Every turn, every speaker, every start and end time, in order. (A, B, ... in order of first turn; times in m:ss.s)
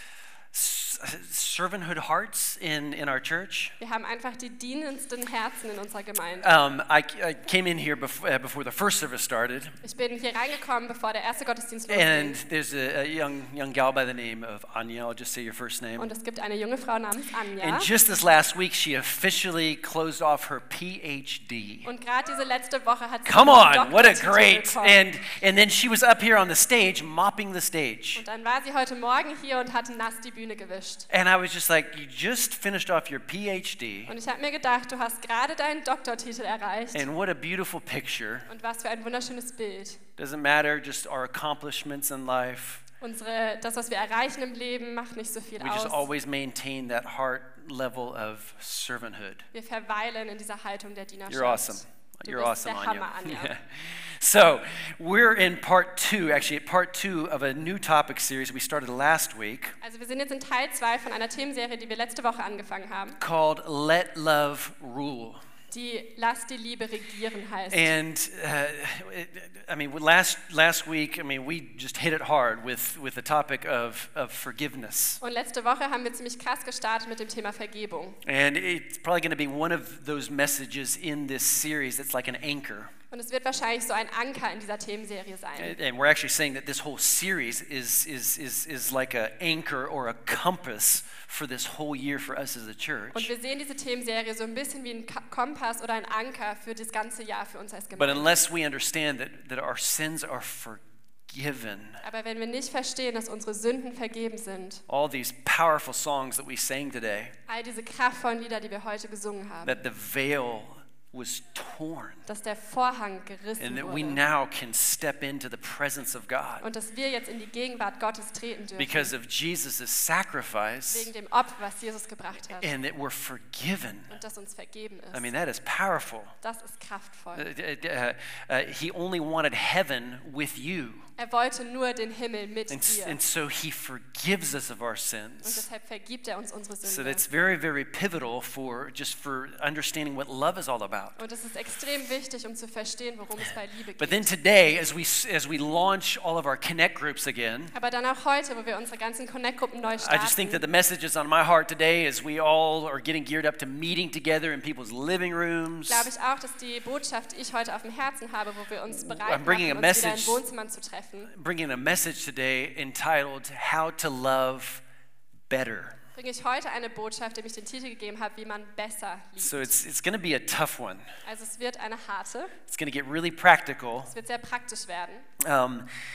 0:00.5-0:03.8 A
0:03.8-0:06.5 B
0:06.4-0:09.8 A
0:09.8-0:12.4 B
0:11.9-0:16.1 A
0:16.0-0:17.9 B
0:17.6-0:21.9 A
0:21.8-0:25.0 B
0:23.2-0:28.2 A
0:28.2-0:31.1 B
0:31.1-0:34.1 A
0:34.1-0:37.0 B
0:36.9-0:38.5 A
0:38.5-0:40.0 B
0:40.2-0:42.8 A
0:43.0-0:46.1 B
0:45.6-0:49.4 A
0:49.5-0:53.5 B
0:51.3-0:59.8 A
0:59.8-1:03.2 B
1:03.2-1:05.4 A
1:05.7-1:07.9 B
1:07.7-1:15.2 A
1:15.2-1:18.2 B
1:18.2-1:22.9 A
1:23.1-1:25.8 B
1:25.6-1:33.3 A
1:33.1-1:38.4 B
1:38.0-1:42.0 A
1:42.0-1:44.8 B
1:44.9-1:47.3 A
1:47.5-1:49.8 B
1:49.6-1:52.2 A
1:52.2-1:54.2 B
1:53.6-1:56.6 A
1:56.6-1:59.1 B
1:58.8-2:01.1 A
2:00.9-2:02.7 B
2:02.6-2:04.1 A
2:04.1-2:05.3 B
2:05.1-2:06.3 A
2:06.4-2:07.5 B
2:07.3-2:11.1 A
2:11.2-2:13.2 B
2:12.7-2:15.6 A
2:15.4-2:17.2 B
2:16.8-2:21.2 A
2:21.2-2:24.3 B
2:24.0-2:27.7 A
2:27.7-2:30.6 B
2:29.9-2:36.1 A
2:35.9-2:41.3 B
2:38.9-2:40.4 A
2:41.3-2:44.8 A
2:45.5-2:46.0 A
2:46.1-2:49.7 B
2:49.4-2:51.1 A
2:51.2-2:52.6 B
2:52.7-2:54.1 A
2:54.1-2:55.3 B
2:55.4-2:55.9 A